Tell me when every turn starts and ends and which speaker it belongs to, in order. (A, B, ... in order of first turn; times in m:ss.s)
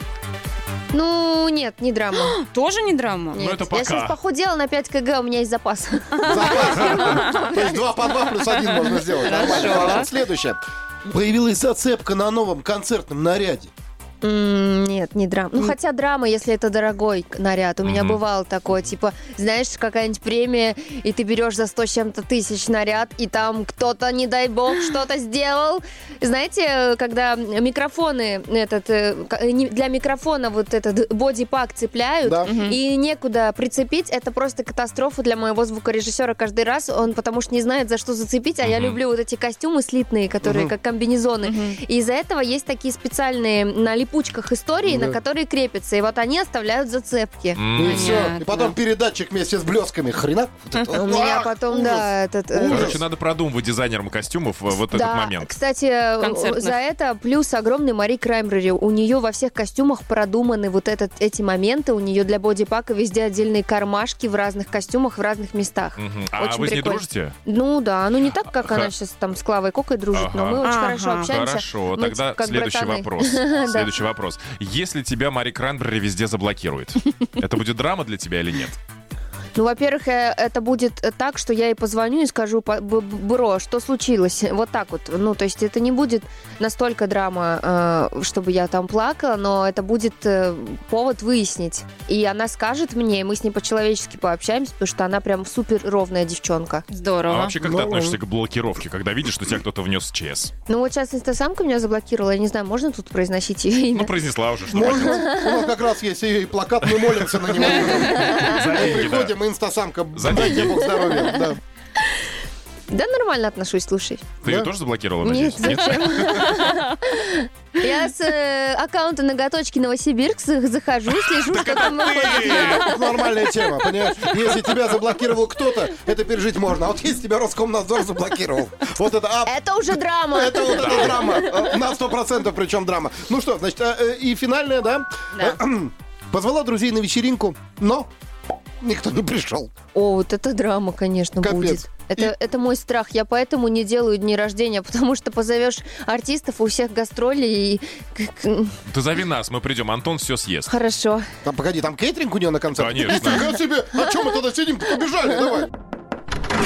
0:00.9-0:02.4 A
0:02.1-0:03.4 B
0:03.3-0:07.9 A
0:03.4-0:04.2 C
0:06.2-0:13.7 D
0:06.3-0:07.3 B
0:08.5-0:10.1 B
0:14.2-0:47.6 A
0:17.8-0:18.2 C
0:32.2-0:32.5 D
0:32.5-0:32.8 B
0:38.6-0:39.0 C
0:40.4-0:40.7 D
0:41.4-0:41.8 B
0:44.9-0:45.2 D
0:47.6-0:48.0 C
0:47.8-0:53.0 D
0:47.9-0:48.8 B
0:50.9-0:53.0 A
0:52.7-0:55.5 C
0:54.9-1:13.9 A
0:56.2-0:56.8 B
1:06.0-1:07.4 C
1:08.6-1:08.9 C
1:10.1-1:10.8 C
1:10.6-1:11.4 B
1:11.3-1:18.8 C
1:19.6-1:36.8 A
1:36.9-1:37.6 B
1:37.3-1:40.5 C
1:37.6-1:38.2 D
1:40.7-1:44.1 A
1:43.9-1:45.2 C
1:44.7-1:51.6 D
1:44.7-1:45.7 A
1:48.0-1:48.6 A
1:48.0-1:49.3 C
1:50.2-1:50.7 C
1:51.1-1:51.5 A
1:52.9-1:54.3 A
1:54.4-1:56.6 C
1:54.4-1:54.7 D
1:55.2-2:02.9 A
2:01.5-2:02.9 C
2:02.7-2:09.6 D
2:09.4-2:11.7 A
2:10.3-2:18.1 D
2:10.8-2:11.1 C
2:15.3-2:15.6 B
2:18.8-2:19.7 D
2:20.0-2:28.7 A
2:21.4-2:22.3 D
2:28.9-2:30.7 C
2:30.7-2:31.2 A
2:31.4-2:35.7 D
2:32.8-2:33.5 C